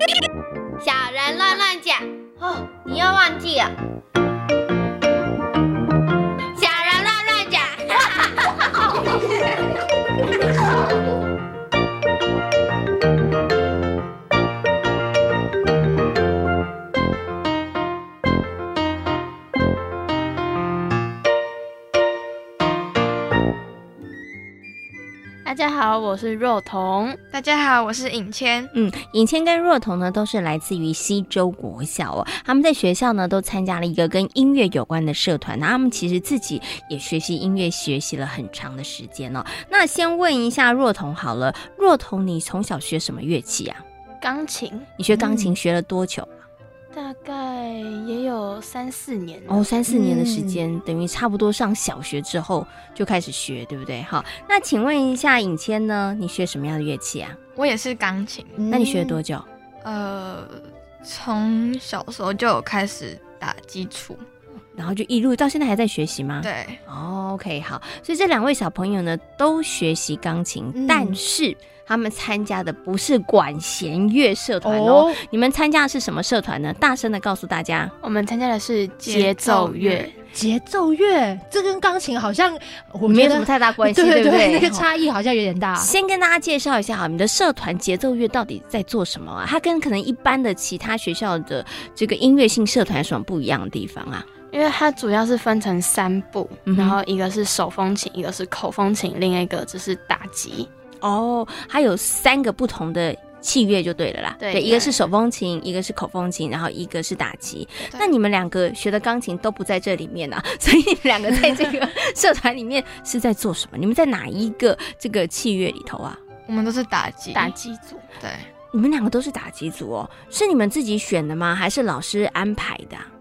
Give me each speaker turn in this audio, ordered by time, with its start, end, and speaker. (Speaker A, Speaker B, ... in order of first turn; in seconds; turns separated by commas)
Speaker A: 0.8-3.7, Speaker A: 6.6-9.0, Speaker B: 25.4-27.2, Speaker C: 27.3-28.7, Speaker D: 28.7-43.8, Speaker B: 44.2-44.9, Speaker D: 45.0-46.4, Speaker E: 45.1-45.5, Speaker B: 46.9-49.7, Speaker D: 49.5-57.4, Speaker E: 49.9-50.6, Speaker C: 57.5-58.6, Speaker E: 58.6-59.2, Speaker D: 58.7-59.5, Speaker C: 59.8-64.2, Speaker D: 64.8-77.9, Speaker C: 66.4-66.8, Speaker E: 70.7-71.2, Speaker E: 74.6-75.2, Speaker B: 78.0-80.2, Speaker C: 79.0-80.1, Speaker E: 80.3-85.9, Speaker D: 83.0-84.9, Speaker D: 85.8-94.3, Speaker B: 94.5-100.7, Speaker D: 96.7-97.0, Speaker D: 101.0-116.2, Speaker B: 104.4-105.0, Speaker C: 116.5-117.5, Speaker B: 117.3-118.1, Speaker C: 118.2-118.5, Speaker D: 118.7-123.1